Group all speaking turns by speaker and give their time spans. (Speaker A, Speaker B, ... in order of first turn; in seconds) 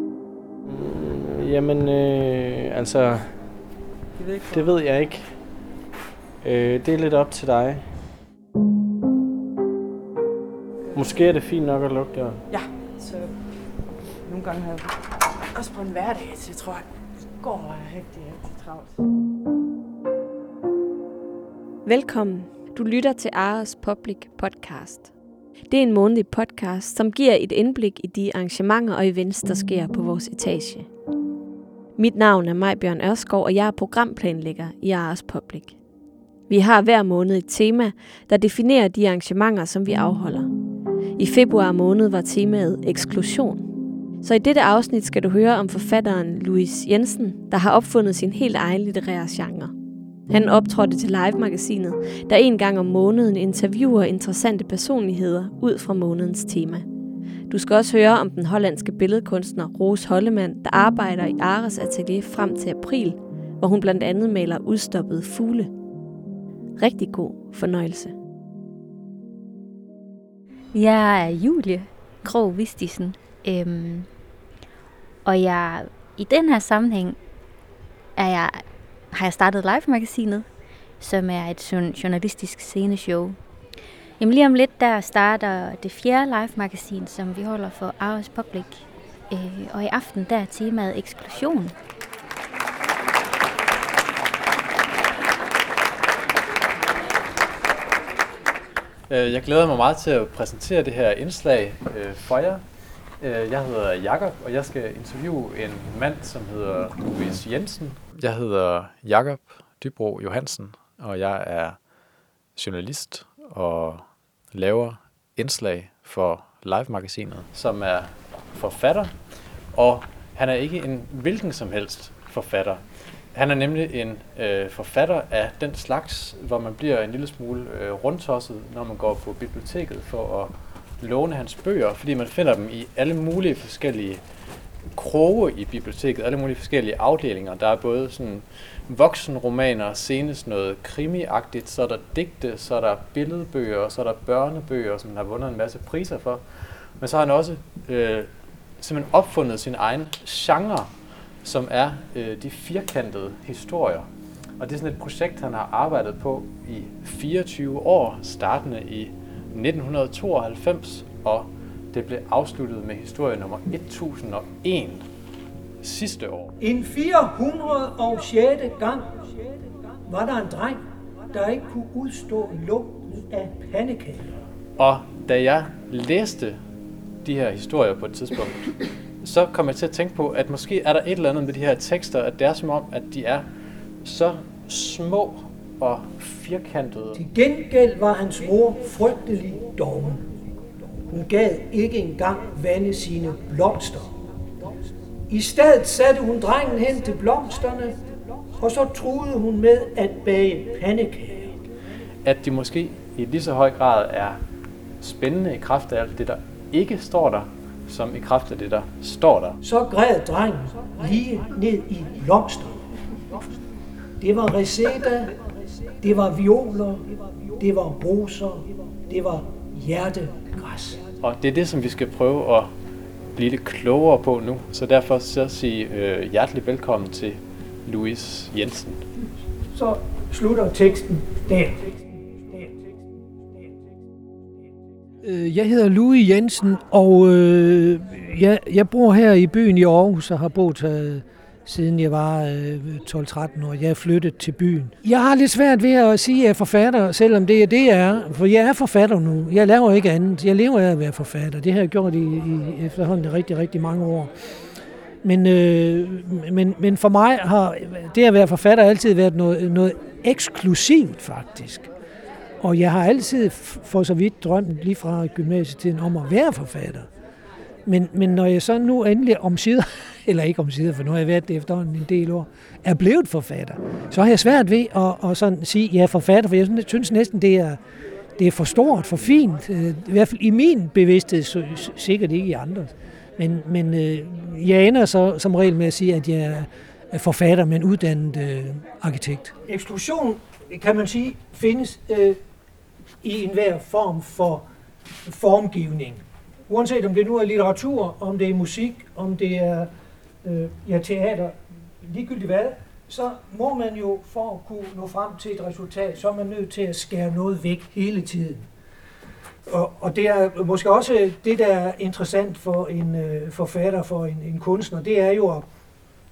Speaker A: 0.7-3.7, 4.5-5.5, 6.4-7.9, 10.9-12.4
Speaker B: 4.2-4.7, 12.5-19.0
Speaker C: 21.9-25.1, 25.7-30.9, 32.0-35.8, 36.5-40.5, 41.2-43.7, 44.2-49.7, 50.3-56.9, 57.5-65.7, 66.8-68.1
Speaker D: 70.7-74.1, 75.2-77.2, 78.2-80.5, 81.0-83.4, 84.2-91.8
Speaker E: 99.1-102.6, 103.2-111.8, 112.5-119.1, 119.7-134.2, 134.9-150.9, 151.4-154.1, 154.6-165.1, 165.8-166.6, 174.8-176.6, 177.2-183.5, 184.0-187.2, 202.2-204.4, 205.0-209.6, 221.2-222.7, 223.3-229.1
Speaker F: 166.6-169.2, 170.1-170.8, 171.3-174.4, 187.1-190.3, 191.1-194.1, 195.3-198.0, 198.6-201.6, 209.6-212.8, 214.2-215.4, 216.0-221.0, 229.7-232.0, 235.2-254.3, 255.2-261.9, 262.6-267.1, 267.9-277.8, 278.4-292.4, 293.2-294.6, 295.2-299.9, 300.4-308.7, 309.7-315.6